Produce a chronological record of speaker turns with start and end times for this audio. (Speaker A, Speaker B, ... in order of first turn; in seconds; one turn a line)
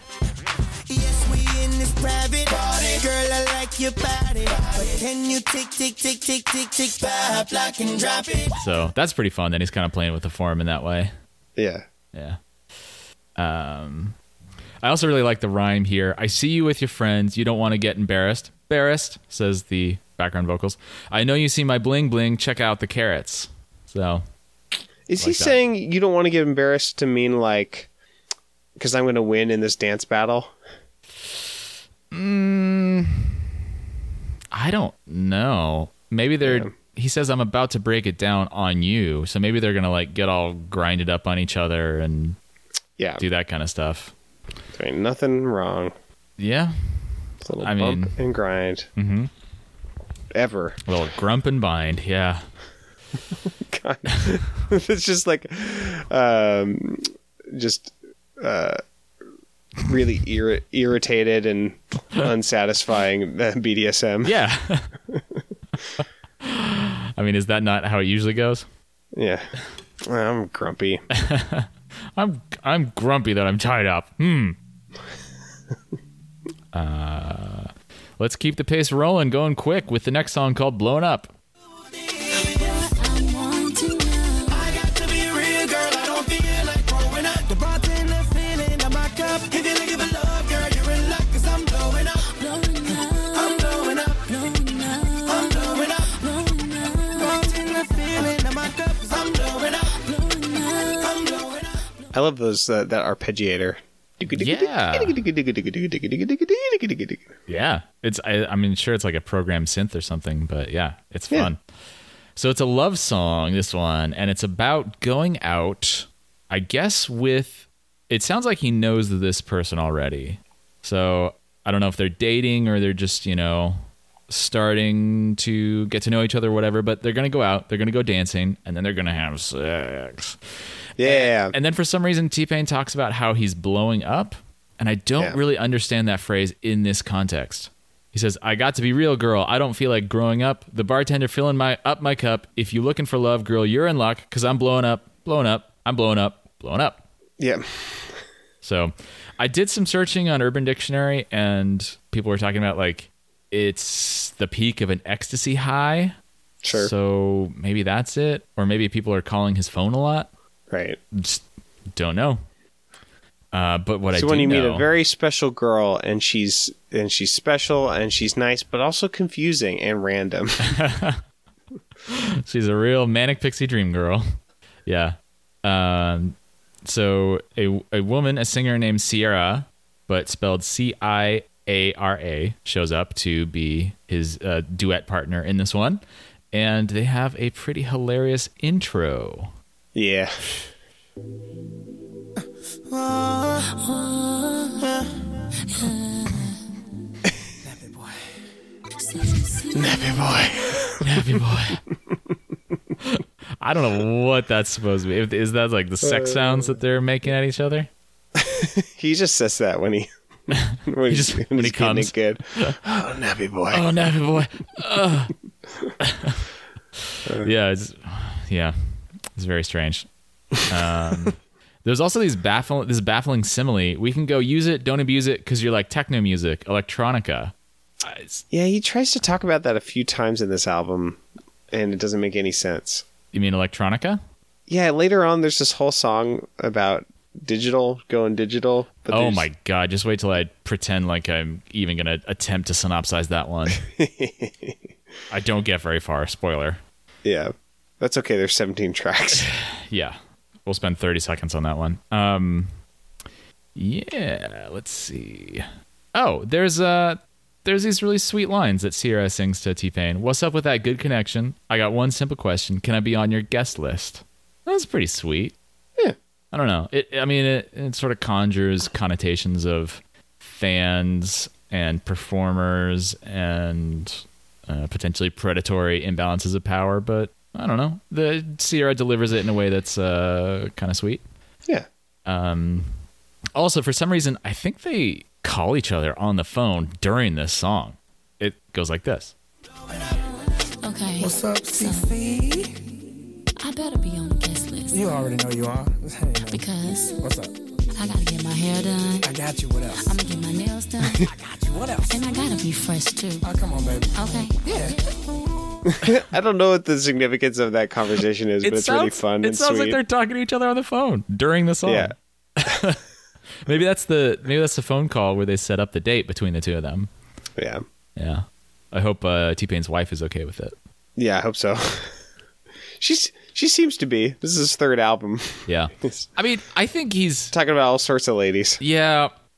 Speaker A: 0.9-8.6
Speaker B: 8.6-11.1
Speaker C: 11.6-11.8
Speaker B: 12.1-12.4
Speaker B: 13.4-14.2
Speaker B: 14.8-24.2
Speaker C: 25.1-27.9
Speaker B: 25.2-25.6
Speaker C: 28.8-30.5
Speaker B: 32.1-33.5
Speaker B: 34.5-42.4
Speaker C: 36.4-36.7
Speaker B: 43.2-44.1
Speaker C: 44.7-45.9
Speaker B: 46.4-48.2
Speaker C: 47.4-48.9
Speaker B: 49.0-49.3
Speaker C: 50.3-50.8
Speaker B: 50.9-52.5
Speaker C: 53.6-58.8
Speaker C: 59.8-64.3
Speaker B: 64.2-64.9
Speaker B: 66.0-68.7
Speaker C: 69.1-69.5
Speaker C: 70.0-71.0
Speaker B: 71.1-74.6
Speaker B: 76.7-81.3
Speaker D: 82.9-84.7
Speaker A: 84.5-92.3
Speaker D: 92.3-93.6
Speaker A: 93.3-94.3
Speaker D: 94.3-95.5
Speaker A: 95.2-96.2
Speaker D: 96.2-97.4
Speaker A: 97.1-100.0
Speaker D: 100.0-101.2
Speaker A: 101.0-101.7
Speaker C: 102.1-107.3
Speaker B: 104.3-105.2
Speaker B: 107.5-111.6
Speaker B: 112.4-130.4
Speaker C: 131.0-131.5
Speaker B: 131.0-147.0
Speaker C: 147.4-148.1
Speaker B: 148.6-156.2
Speaker C: 156.6-156.9
Speaker B: 156.7-160.3
Speaker C: 160.7-161.0
Speaker B: 161.1-162.4
Speaker B: 163.5-164.9
Speaker C: 164.1-170.7
Speaker B: 170.6-171.2
Speaker B: 172.1-174.3
Speaker B: 174.9-186.0
Speaker B: 186.5-189.5
Speaker C: 189.9-190.6
Speaker A: 192.9-193.5
Speaker D: 193.7-194.8
Speaker D: 195.7-196.6
Speaker E: 197.7-198.2
Speaker D: 199.1-200.2
Speaker C: 199.8-201.0
Speaker B: 201.0-201.8
Speaker B: 203.0-207.9
Speaker C: 208.4-210.1
Speaker B: 210.5-212.7
Speaker C: 210.8-213.9
Speaker B: 213.7-215.3
Speaker B: 216.0-216.5
Speaker B: 217.0-220.1
Speaker C: 217.2-217.5
Speaker B: 220.7-228.4
Speaker C: 228.5-231.2
Speaker C: 231.7-233.0
Speaker B: 233.3-234.2
Speaker C: 234.7-239.5
Speaker B: 239.1-243.8
Speaker C: 243.9-244.9
Speaker B: 245.3-246.8
Speaker C: 247.2-249.5
Speaker B: 249.4-252.7
Speaker B: 253.8-265.6
Speaker B: 266.5-281.2
Speaker B: 282.2-283.0
Speaker B: 283.5-289.3
Speaker D: 290.8-292.1
Speaker E: 291.2-292.8
Speaker D: 293.6-295.0
Speaker E: 294.9-296.7
Speaker D: 296.5-297.2
Speaker E: 297.2-297.5
Speaker D: 297.9-299.3
Speaker E: 299.2-300.1
Speaker D: 300.0-301.3
Speaker E: 301.2-302.4
Speaker D: 302.1-303.4
Speaker E: 303.4-304.1
Speaker D: 304.1-305.0
Speaker E: 304.6-305.0
Speaker C: 305.9-310.0
Speaker B: 308.6-313.0
Speaker C: 311.9-312.1
Speaker B: 313.6-317.1
Speaker C: 317.6-317.8
Speaker B: 318.1-320.8
Speaker C: 321.2-322.1
Speaker C: 323.0-326.3
Speaker B: 325.7-327.5
Speaker C: 327.5-328.8
Speaker B: 328.8-329.3